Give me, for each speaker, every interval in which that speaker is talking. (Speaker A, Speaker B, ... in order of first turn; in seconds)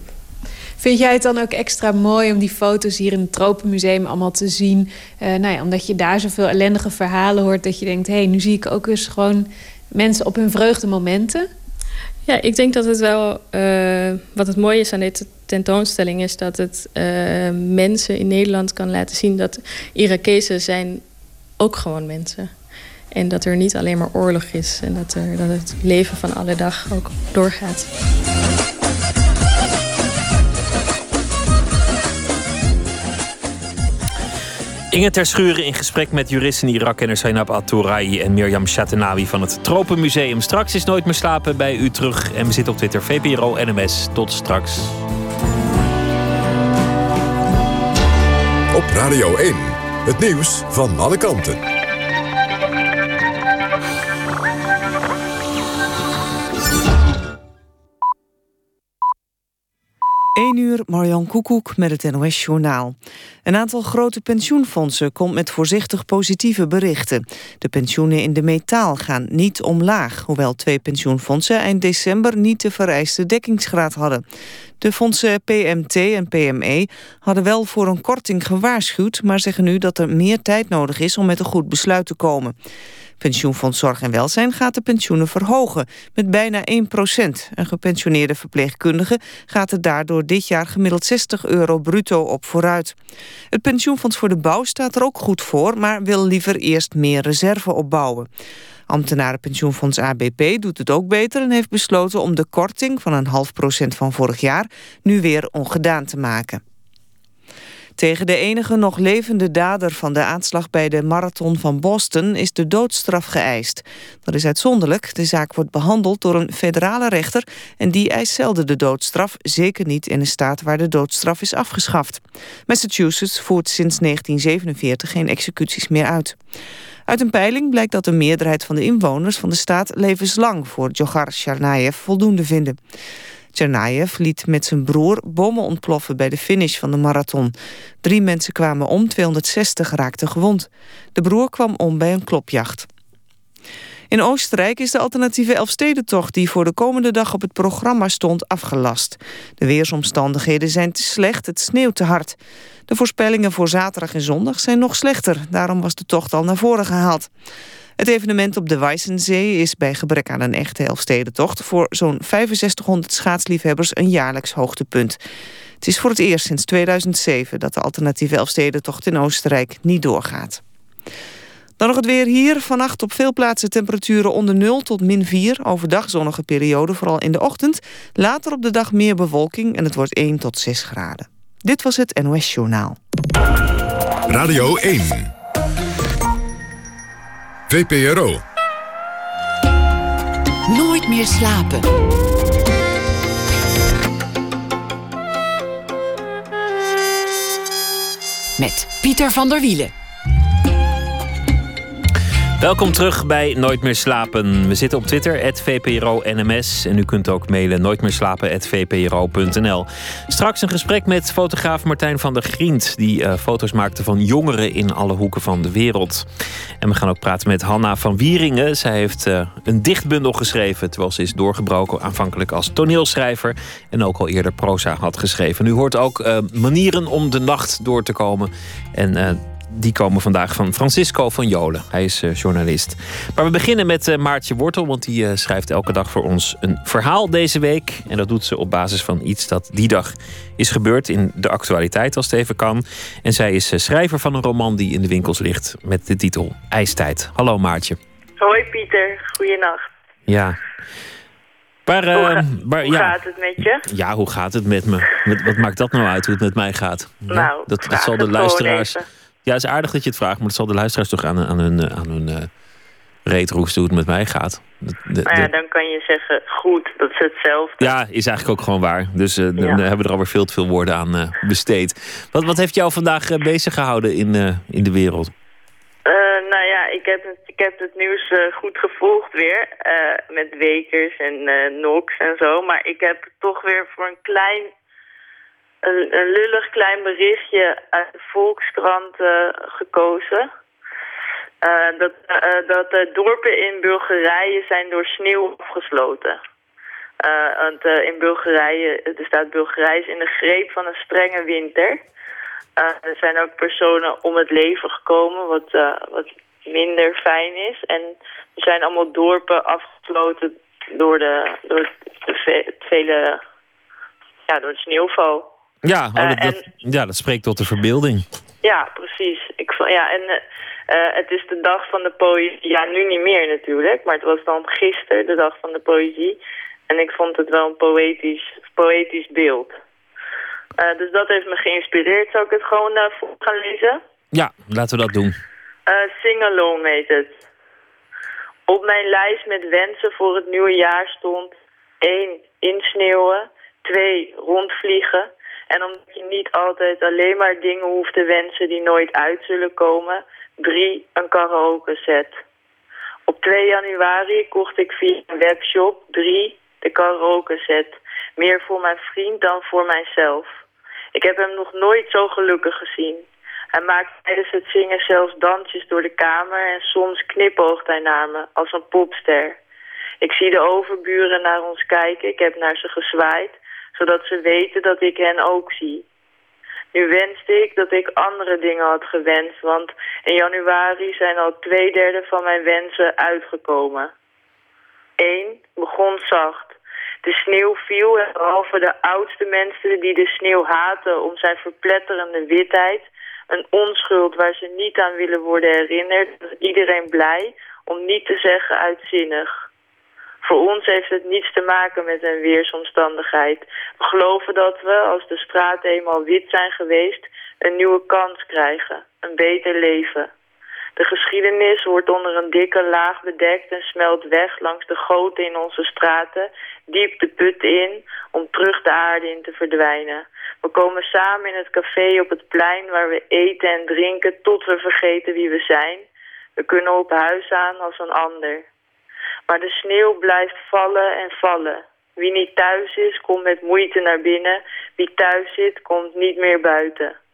Speaker A: 0.8-11.4
Speaker B: 12.2-21.0, 21.6-22.5, 23.1-27.9
Speaker C: 34.9-45.0, 202.6-216.2, 216.8-248.0, 250.3-250.6, 251.9-253.2, 253.8-262.5, 263.2-265.5, 267.8-275.3, 315.8-318.2, 334.3-335.4
Speaker D: 48.7-51.6, 184.3-185.3, 187.7-188.4
Speaker E: 60.4-74.2, 74.8-82.5, 83.2-93.0, 93.5-98.3, 98.9-106.6, 108.0-126.4, 127.1-132.8, 133.5-142.9, 144.1-152.3, 152.9-157.3, 158.0-165.2, 165.8-170.6, 171.8-183.0
Speaker F: 190.7-191.9, 198.6-199.9
Speaker G: 248.4-249.9, 252.1-253.8, 257.3-259.0, 265.2-267.9, 276.1-284.7, 285.8-290.5, 291.6-296.4, 297.2-302.0, 302.8-313.4, 314.5-315.5, 316.1-316.6, 318.6-320.4, 320.9-329.8, 330.8-334.0, 335.9-337.4, 338.7-352.4, 353.3-360.5, 361.1-369.6, 370.2-376.0, 376.9-384.1, 385.2-399.5, 400.4-410.3, 410.9-426.0, 426.6-428.6, 429.5-437.1